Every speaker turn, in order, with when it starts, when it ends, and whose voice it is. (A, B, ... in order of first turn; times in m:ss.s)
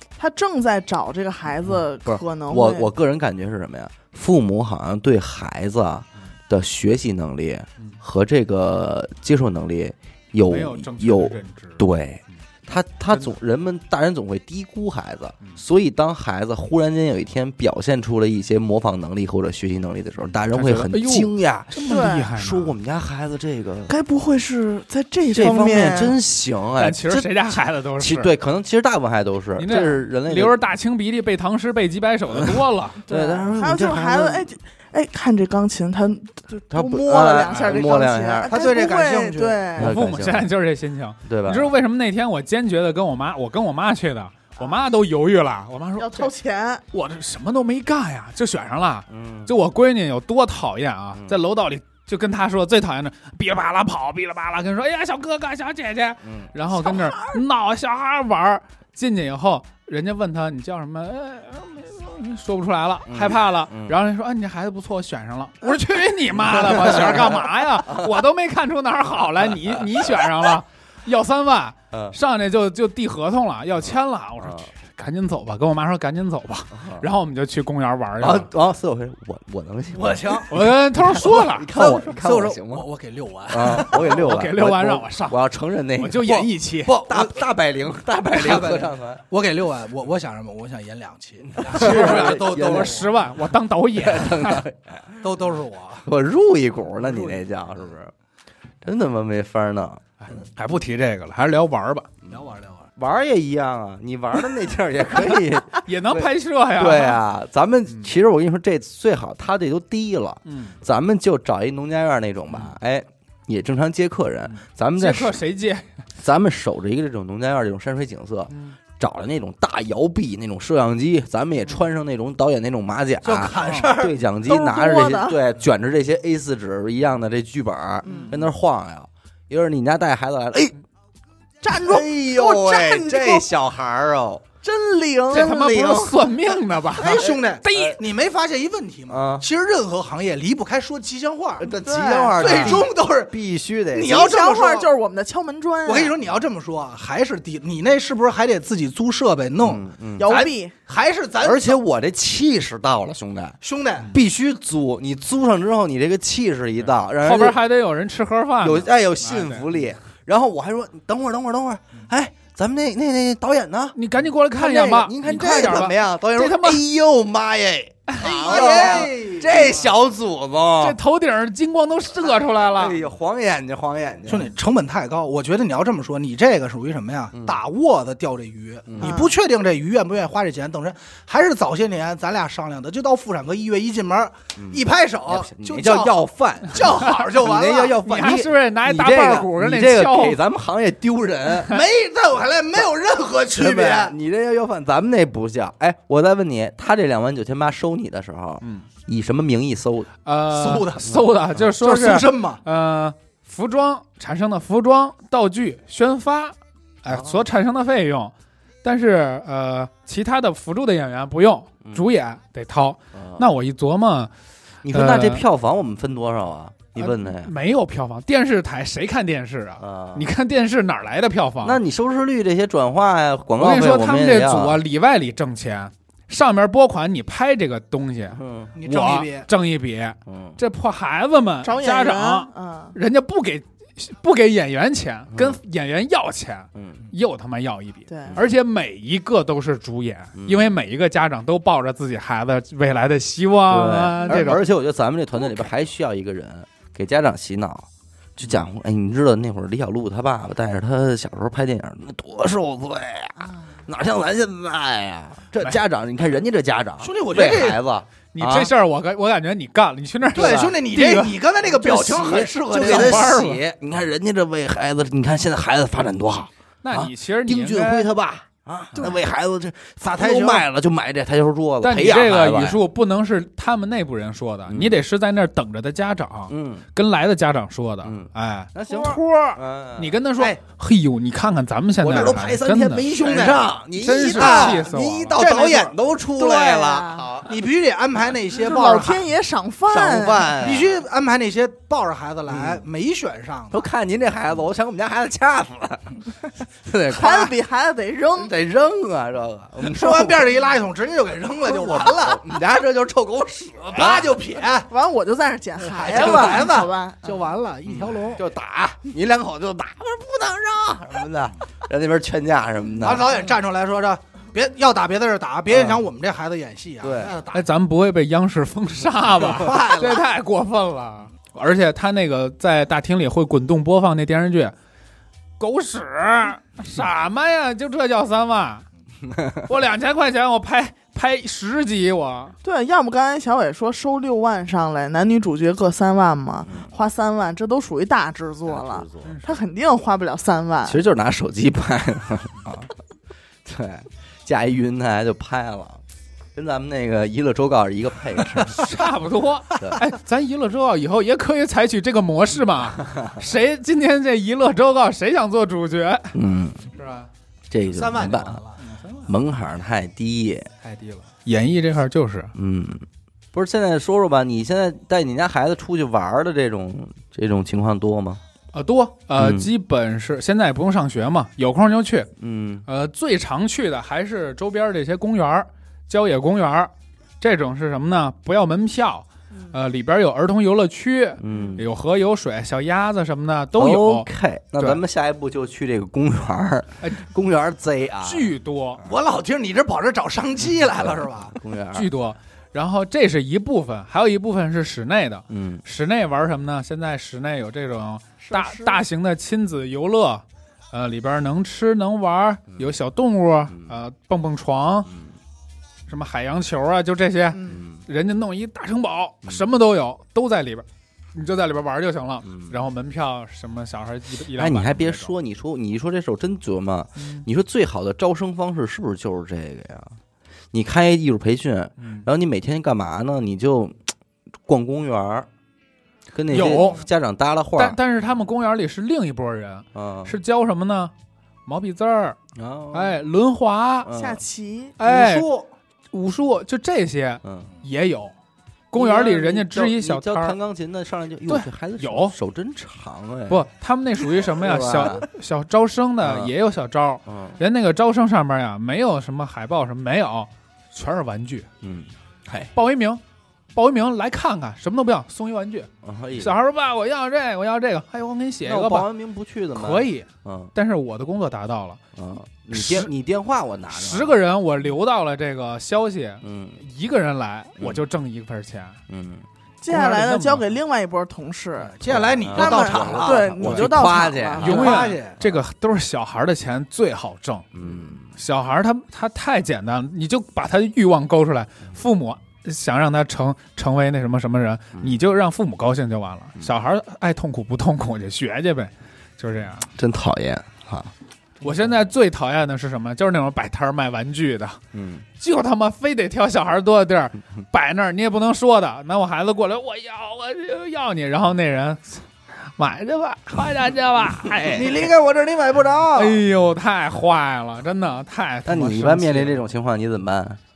0:00.2-0:02.9 A
0:02.0-0:23.9 B
0:10.4-0:11.8 C
0:20.5-0:22.8 C
0:21.8-0:22.3 A
0:23.9-0:26.2 A
0:25.3-0:30.6 B
0:26.8-0:28.3 C
0:29.6-0:33.0 C
0:33.1-0:34.5 B
0:33.1-0:39.9 A
0:36.7-0:38.6 B
0:37.5-0:37.8 C
0:38.5-0:39.6 D
0:39.8-0:40.5 B
0:39.8-0:46.3 C
0:41.3-0:41.7 B
0:46.0-0:46.8 A
0:46.9-1:18.5 C
0:49.1-0:49.5 B
0:56.2-0:56.5 B
1:03.1-1:04.0 B
1:06.5-1:08.1 B
1:11.9-1:12.2 B
1:14.4-1:14.7 B
1:16.8-1:17.1 B
1:18.2-1:20.5 B
1:19.9-1:20.6 D
1:20.5-1:21.8 C
1:21.0-1:22.9 B
1:21.7-1:24.3 D
1:23.5-1:29.2 B
1:23.7-1:25.4 C
1:26.0-1:27.0 C
1:27.1-1:27.4 D
1:28.3-1:33.1 D
1:31.5-1:33.1 B
1:31.7-1:34.6 C
1:34.0-1:35.2 B
1:35.2-1:36.1 D
1:36.0-1:38.1 B
1:37.1-1:37.4 D
1:38.8-1:40.0 B
1:40.2-1:42.1 C
1:42.3-1:42.9 D
1:43.0-1:55.4 B
1:45.7-1:47.2 C
1:50.5-1:50.8 C
1:54.5-1:55.9 C
1:56.2-2:10.8 B
1:58.5-1:58.8 C
2:03.2-2:04.2 D
2:03.5-2:03.9 C
2:04.4-2:05.4 A
2:08.0-2:08.4 A
2:08.1-2:08.4 C
2:11.6-2:13.5 A
2:11.7-2:14.4 B
2:14.6-2:15.5 A
2:15.3-2:16.3 B
2:15.3-2:18.0 C
2:17.0-2:21.8 D
2:17.2-2:18.0 B
2:19.1-2:19.4 B
2:21.6-2:24.3 B
2:21.8-2:22.7 A
2:22.4-2:23.3 D
2:22.4-2:22.8 C
2:23.9-2:24.9 D
2:24.0-2:26.1 A
2:25.8-2:31.8 D
2:29.6-2:30.4 B
2:30.2-2:30.7 A
2:31.4-2:33.6 B
2:33.6-2:34.1 D
2:34.1-2:37.6 B
2:36.8-2:39.7 C
2:38.6-2:44.0 B
2:44.0-2:46.8 C
2:44.5-2:51.0 B
2:48.1-2:49.1 C
2:48.2-2:49.9 D
2:50.8-2:53.0 C
2:52.6-2:54.5 B
2:54.3-3:08.0 D
2:57.3-2:57.6 B
2:58.9-2:59.2 B
2:59.0-2:59.3 A
3:04.6-3:11.8 B
3:06.8-3:07.4 C
3:08.0-3:10.4 C
3:11.7-3:14.2 D
3:13.5-3:20.1 B
3:18.6-3:18.9 C
3:20.2-3:28.3 C
3:20.5-3:22.6 D
3:27.1-3:27.4 B
3:28.8-3:34.3 C
3:33.1-3:33.5 B
3:34.8-3:37.5 B
3:34.9-3:35.4 C
3:37.0-3:41.8 C
3:39.8-3:40.3 B
3:41.6-3:44.8 B
3:43.6-4:04.6 C
3:48.3-3:48.7 B
3:48.8-3:49.5 D
3:50.3-3:50.6 B
3:51.6-3:53.0 A
3:55.3-3:55.6 B
3:56.8-3:57.0 B
3:58.1-3:58.4 A
4:00.4-4:00.7 B
4:03.7-4:18.7 B
4:04.2-4:04.6 A
4:17.0-4:17.8 D
4:18.3-4:21.4 C
4:20.3-4:23.3 D
4:20.4-4:20.7 B
4:21.7-4:32.8 B
4:22.0-4:23.6 C
4:26.8-4:28.1 C
4:30.1-4:30.7 D
4:31.8-4:43.1 C
4:34.7-4:35.0 B
4:36.5-4:36.9 B
4:38.0-4:40.5 B
4:42.0-4:47.5 B
4:43.1-4:46.0 D
4:44.0-4:45.4 C
4:46.4-4:47.3 A
4:47.4-4:49.3 D
4:48.5-4:50.6 A
4:49.9-4:51.0 B
4:50.6-4:53.8 D
4:52.5-4:52.8 B
4:53.7-4:57.6 B
4:57.1-4:58.5 A
4:58.4-5:00.6 B
4:59.8-5:02.4 D
5:01.7-5:04.4 B
5:03.9-5:04.9 D
5:04.9-5:07.5 A
5:05.9-5:08.4 D
5:06.1-5:06.6 B
5:07.9-5:13.4 B
5:13.0-5:17.7 D
5:15.7-5:16.0 B
5:17.0-5:17.4 B
5:17.5-5:24.7 C
5:19.4-5:20.3 D
5:25.6-5:28.8 C
5:29.3-5:29.6 B
5:29.6-5:32.6 C
5:32.6-5:41.0 A
5:36.7-5:36.9 B
5:38.7-5:39.3 B
5:39.2-5:39.6 C
5:40.9-5:42.9 B
5:43.6-5:46.0 B
5:46.6-5:48.9 B
5:48.7-5:56.4 C
5:53.0-5:53.3 B
5:56.3-5:56.9 B
5:57.0-5:57.3 C
5:57.7-5:58.6 B
5:57.9-5:58.8 D
5:58.8-5:59.4 C
5:59.3-6:00.7 B
6:00.8-6:02.5 C
6:02.6-6:08.4 B
6:08.7-6:12.3 C
6:09.4-6:09.7 B
6:12.4-6:12.8 B
6:12.9-6:24.3 C
6:21.4-6:21.9 B
6:23.8-6:28.6 B
6:28.2-6:29.0 C
6:29.0-6:31.6 D
6:31.0-6:32.1 B
6:31.9-6:45.1 C
6:35.5-6:35.8 B
6:38.4-6:39.0 A
6:46.1-6:55.3 C
6:47.5-6:47.8 A
6:47.6-6:48.0 B
6:52.4-6:52.8 B
6:54.6-7:00.2 B
7:00.7-7:04.1 B
7:02.0-7:02.3 C
7:04.7-7:05.5 B
7:06.3-7:08.0 B
7:06.5-7:07.0 C
7:07.8-7:11.1 C
7:10.0-7:10.4 B
7:11.7-7:12.4 C
7:12.6-7:13.2 B
7:12.9-7:14.1 C
7:14.0-7:14.4 B
7:14.1-7:14.9 A
7:15.0-7:15.5 C
7:15.0-7:15.7 D
7:16.1-7:18.3 C
7:17.4-7:17.7 B
7:18.9-7:20.6 C
7:18.9-7:23.6 B
7:21.5-7:22.4 C
7:23.5-7:31.7 C
7:24.5-7:25.3 B
7:26.2-7:26.5 B
7:27.3-7:27.6 B
7:31.8-7:32.7 B
7:32.7-7:33.2 C
7:33.8-7:39.1 C
7:36.0-7:36.6 B
7:38.6-7:40.7 B
7:39.8-7:42.0 C
7:42.2-7:44.4 B
7:42.7-7:43.1 C
7:43.9-7:49.0 C
7:46.4-7:46.8 B
7:49.1-7:49.5 B
7:49.8-7:52.0 A
7:49.9-7:50.7 C
7:51.8-7:53.7 D
7:52.1-7:55.6 B
7:52.5-7:55.0 A
7:53.6-7:53.9 C
7:54.6-7:55.4 D
7:54.6-8:09.9 C
7:57.7-7:58.4 B
8:10.0-8:11.1 B
8:11.6-8:14.8 C
8:14.9-8:15.2 B
8:15.4-8:25.1 C
8:24.7-8:26.4 D
8:26.1-8:29.6 C
8:28.7-8:30.6 B